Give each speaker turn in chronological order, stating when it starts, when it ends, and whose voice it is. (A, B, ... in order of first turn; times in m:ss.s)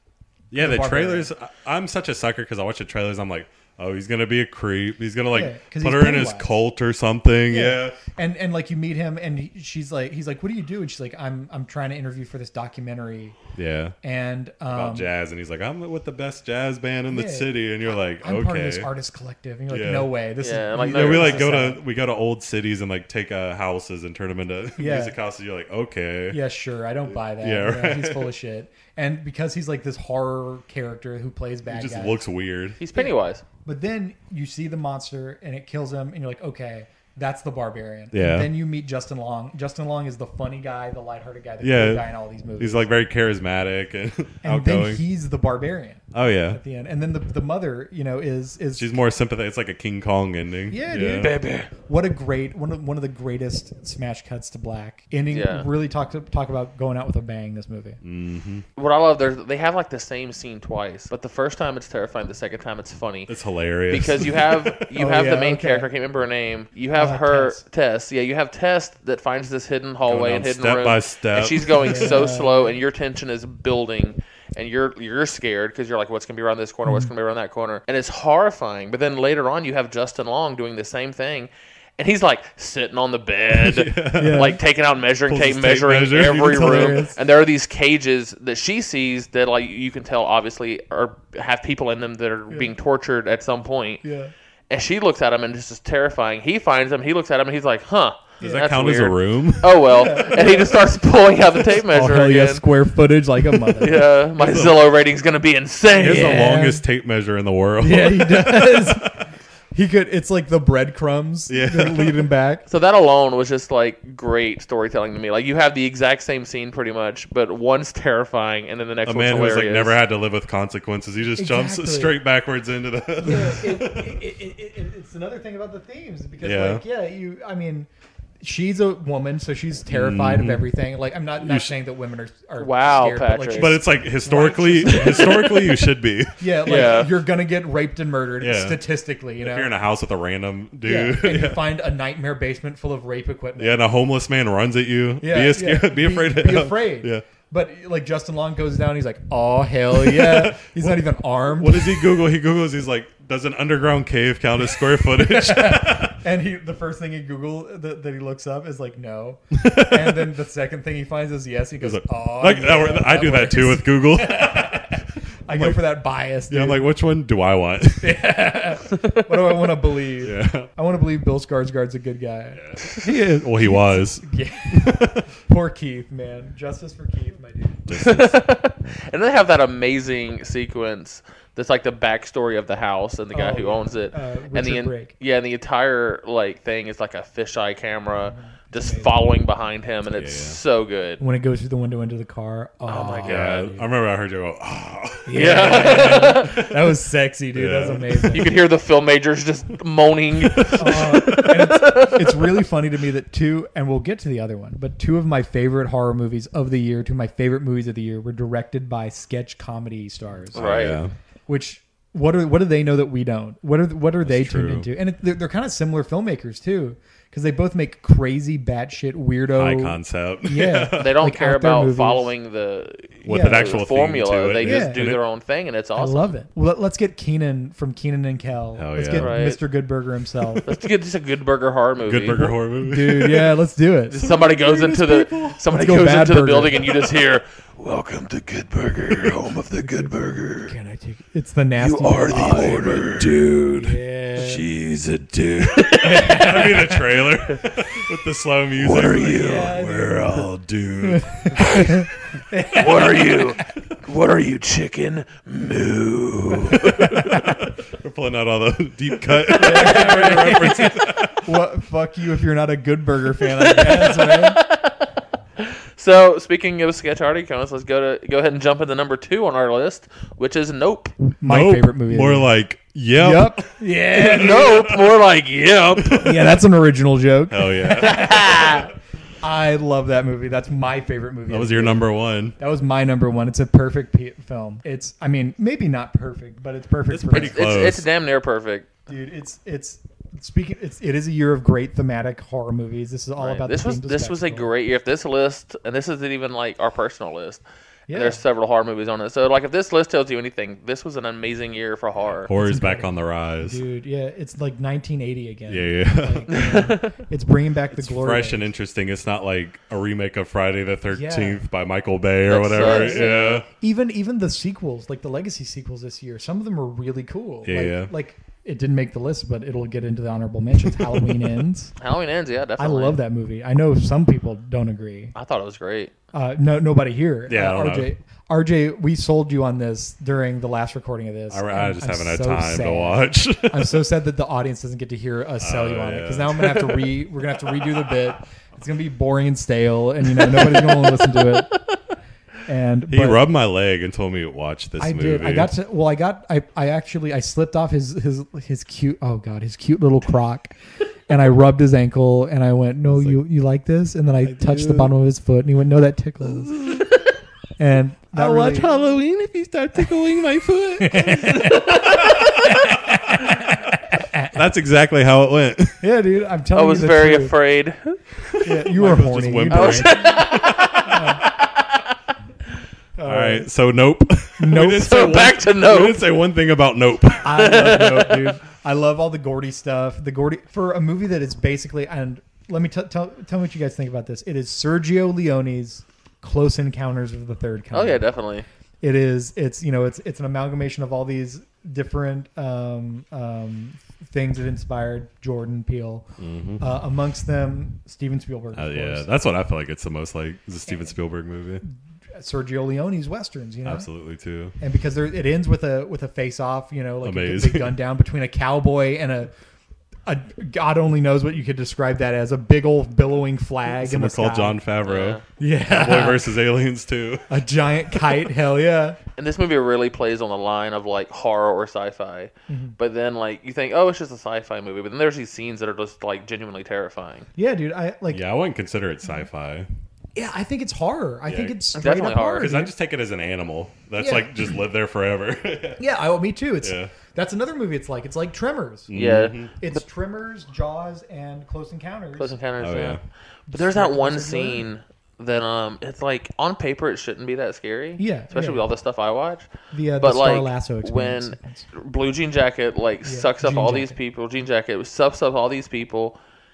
0:00.5-0:08.0 A
0:00.5-0:01.3 B
0:05.3-0:06.5 B
0:07.5-0:13.4 B
0:13.6-0:13.9 A
0:14.0-0:15.1 B
0:14.7-0:18.9 A
0:17.1-0:17.5 B
0:18.2-0:21.8 B
0:19.7-0:20.1 A
0:20.4-0:21.4 C
0:20.8-0:26.4 A
0:24.8-0:25.2 B
0:26.3-0:32.2 B
0:27.2-0:28.3 A
0:31.7-0:32.8 A
0:32.8-0:33.4 C
0:33.6-0:42.9 B
0:38.1-0:38.5 A
0:41.6-0:45.0 A
0:44.4-0:49.0 B
0:46.1-0:46.6 A
0:48.8-0:51.4 A
0:50.7-0:58.0 B
0:51.1-0:51.7 C
0:55.3-0:55.7 C
0:58.0-0:58.6 A
0:58.8-1:03.3 C
1:03.3-1:04.8 A
1:03.9-1:34.0 C
1:04.9-1:05.9 B
1:06.9-1:07.6 B
1:10.0-1:12.2 A
1:11.8-1:12.8 B
1:16.8-1:17.1 B
1:23.5-1:24.5 A
1:24.1-1:24.6 B
1:25.3-1:27.0 A
1:26.4-1:27.2 B
1:34.0-1:34.3 B
1:34.7-1:42.6 C
1:38.4-1:40.2 A
1:39.8-1:41.0 B
1:41.5-1:44.1 B
1:43.8-1:46.4 C
1:44.4-1:44.8 A
1:46.0-1:46.8 B
1:46.0-1:49.2 A
1:47.8-1:49.1 B
1:49.7-1:52.6 B
1:51.5-1:52.3 A
1:52.7-2:00.0 C
1:59.0-2:04.2 A
2:01.4-2:02.1 B
2:03.2-2:07.9 B
2:06.4-2:06.8 A
2:08.4-2:15.7 B
2:09.9-2:10.7 A
2:11.4-2:11.7 A
2:12.6-2:13.8 C
2:13.5-2:16.8 A
2:14.9-2:15.5 C
2:16.4-2:19.7 B
2:16.6-2:17.1 C
2:18.4-2:18.8 A
2:19.4-2:21.6 A
2:20.8-2:23.8 B
2:23.6-2:27.2 A
2:25.2-2:32.2 B
2:29.9-2:36.2 A
2:34.7-2:46.8 B
2:39.5-2:40.3 A
2:41.8-2:45.8 A
2:46.5-2:48.2 A
2:48.0-2:57.9 B
2:48.9-2:49.3 C
2:50.2-2:50.7 A
2:52.5-2:55.3 A
2:57.9-2:58.4 A
2:57.9-3:11.2 C
3:03.3-3:05.1 B
3:08.3-3:09.3 B
3:10.0-3:10.6 A
3:11.2-3:13.9 B
3:12.9-3:13.6 C
3:13.2-3:16.8 A
3:15.3-3:18.6 B
3:15.3-3:16.6 C
3:17.5-3:18.5 A
3:18.3-3:22.5 C
3:20.4-3:21.7 A
3:20.8-3:42.3 B
3:30.5-3:31.0 C
3:30.5-3:31.1 A
3:34.2-3:34.9 A
3:39.5-3:41.1 A
3:41.0-3:46.3 C
3:43.2-3:45.2 A
3:43.2-3:43.8 B
3:44.6-3:45.0 B
3:46.0-3:50.6 B
3:48.8-3:49.4 A
3:49.2-3:49.6 C
3:50.6-3:52.5 C
3:52.0-3:53.6 A
3:52.8-3:54.2 B
3:54.1-4:00.7 C
3:54.2-3:55.6 A
3:55.7-3:56.9 B
3:59.8-4:03.1 B
4:01.8-4:03.6 C
4:02.2-4:11.9 A
4:03.7-4:04.6 B
4:05.7-4:06.7 C
4:06.0-4:07.1 B
4:08.8-4:09.8 C
4:09.2-4:10.5 B
4:11.0-4:13.6 B
4:11.6-4:12.0 C
4:12.8-4:17.4 C
4:16.6-4:21.5 A
4:17.0-4:17.4 B
4:19.5-4:21.0 C
4:19.5-4:24.6 B
4:23.5-4:31.2 C
4:31.3-4:32.5 B
4:31.4-4:35.1 A
4:33.2-4:34.8 B
4:34.2-4:36.3 C
4:36.0-4:36.4 A
4:36.1-4:38.9 B
4:37.5-4:38.7 A
4:37.9-4:38.9 C
4:39.4-4:47.9 B
4:41.5-4:42.6 A
4:47.1-4:48.1 A
4:47.3-4:48.9 C
4:49.1-4:54.7 B
4:53.4-5:02.5 C
4:58.1-4:58.4 B
5:02.5-5:03.8 A
5:02.5-5:08.7 B
5:05.7-5:06.9 A
5:06.5-5:07.1 C
5:07.9-5:13.7 A
5:11.1-5:11.6 B
5:12.5-5:13.6 C
5:12.8-5:21.9 B
5:17.6-5:18.1 A
5:21.2-5:21.5 A
5:22.0-5:23.2 C
5:22.8-5:25.3 B
5:25.3-5:26.1 C
5:26.3-5:41.7 B
5:27.5-5:28.1 A
5:31.5-5:34.0 A
5:35.6-5:36.9 A
5:40.4-5:42.0 C
5:42.6-5:43.4 B
5:43.1-5:45.7 A
5:45.0-5:50.7 B
5:51.3-5:56.8 B
5:53.1-5:53.4 A
5:54.4-5:55.1 A
5:56.8-5:57.3 C
5:57.8-5:58.9 B
5:58.4-6:02.8 C
5:58.7-5:59.2 A
5:59.9-6:01.3 A
6:01.0-6:04.6 B
6:04.5-6:06.0 A
6:06.0-6:07.6 B
6:06.7-6:08.6 C
6:08.6-6:10.5 B
6:08.8-6:11.4 A
6:09.7-6:12.1 C
6:11.0-6:11.4 B
6:13.2-6:13.7 B
6:13.2-6:17.7 A
6:14.6-6:15.4 B
6:14.8-6:16.2 C
6:17.4-6:28.3 B
6:17.6-6:18.5 C
6:27.9-6:28.6 C
6:29.0-6:36.2 B
6:36.4-6:36.9 A
6:36.8-6:39.3 B
6:38.7-6:41.8 A
6:42.3-6:44.1 B
6:43.8-6:44.7 A
6:44.8-6:49.5 B
6:47.2-6:48.0 A
6:50.2-6:54.8 B
6:54.0-6:57.5 A
6:55.0-6:55.4 C
6:55.6-6:56.6 B
6:57.5-6:59.2 B
6:59.4-7:07.5 C
7:02.7-7:03.0 B
7:07.6-7:08.4 B
7:08.3-7:09.9 A
7:10.3-7:12.9 B
7:11.4-7:11.8 A
7:11.9-7:12.7 C
7:12.6-7:16.0 A
7:14.2-7:14.7 B
7:16.0-7:19.1 B
7:16.8-7:17.1 A
7:19.1-7:19.7 A
7:19.1-7:20.0 C
7:19.7-7:22.6 B
7:22.4-7:29.7 C
7:22.8-7:23.2 A
7:23.7-7:24.8 B
7:28.2-7:28.8 B
7:29.9-7:31.8 B
7:30.2-7:36.4 C
7:33.2-7:34.2 B